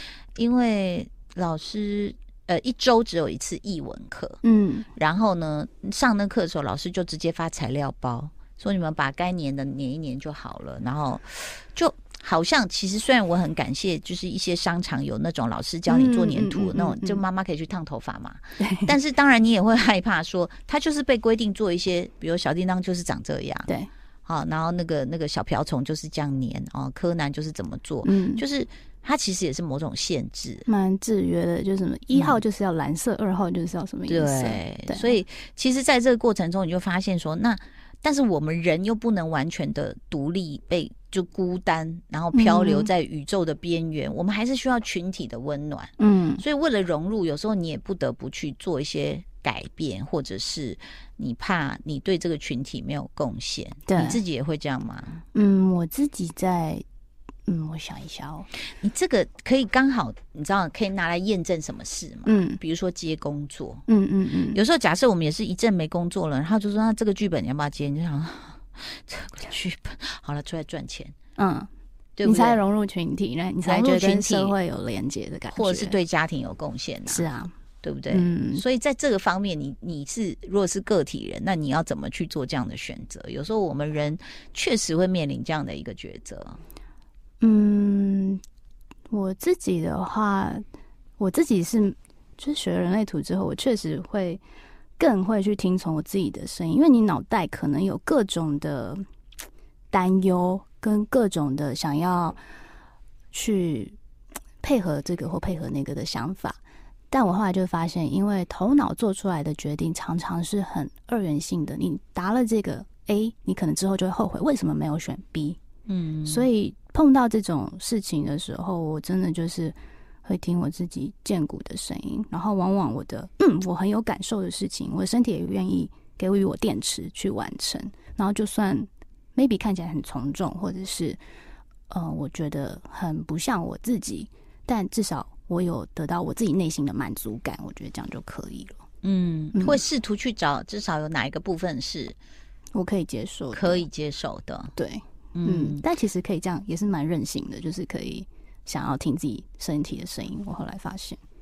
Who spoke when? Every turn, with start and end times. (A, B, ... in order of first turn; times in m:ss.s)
0:00.4-0:04.4 A
0:04.4-0:04.9 B
0:05.0-0:23.7 A
0:15.9-0:17.2 B
0:18.6-0:18.9 B
0:24.2-0:30.7 A
0:28.0-0:28.4 B
0:30.7-0:35.2 B
0:32.1-0:32.4 A
0:34.1-0:55.2 A
0:42.3-0:42.9 B
0:46.0-0:46.4 B
0:53.9-0:54.2 B
0:55.3-0:56.8 B
0:57.5-0:58.5 B
0:58.8-1:03.8 A
1:02.2-1:02.6 B
1:03.9-1:04.6 B
1:04.5-1:11.1 A
1:11.4-1:11.7 B
1:12.2-1:12.6 A
1:12.2-1:16.0 B
1:13.6-1:14.6 A
1:15.5-1:17.2 A
1:17.1-1:17.5 B
1:17.8-1:26.6 A
1:18.1-1:18.6 B
1:27.4-1:28.4 B
1:29.1-1:30.6 B
1:31.2-1:34.4 B
1:35.0-1:39.0 B
1:39.9-1:42.4 B
1:43.3-1:44.0 B
1:44.6-1:46.6 B
1:47.1-1:55.6 B
1:55.9-1:56.5 A
1:56.2-2:11.2 B
2:11.9-2:18.8 B
2:19.0-2:22.2 A
2:19.5-2:19.8 B
2:22.7-2:23.8 B
2:23.5-2:24.7 A
2:24.8-2:31.2 B
2:25.3-2:25.8 A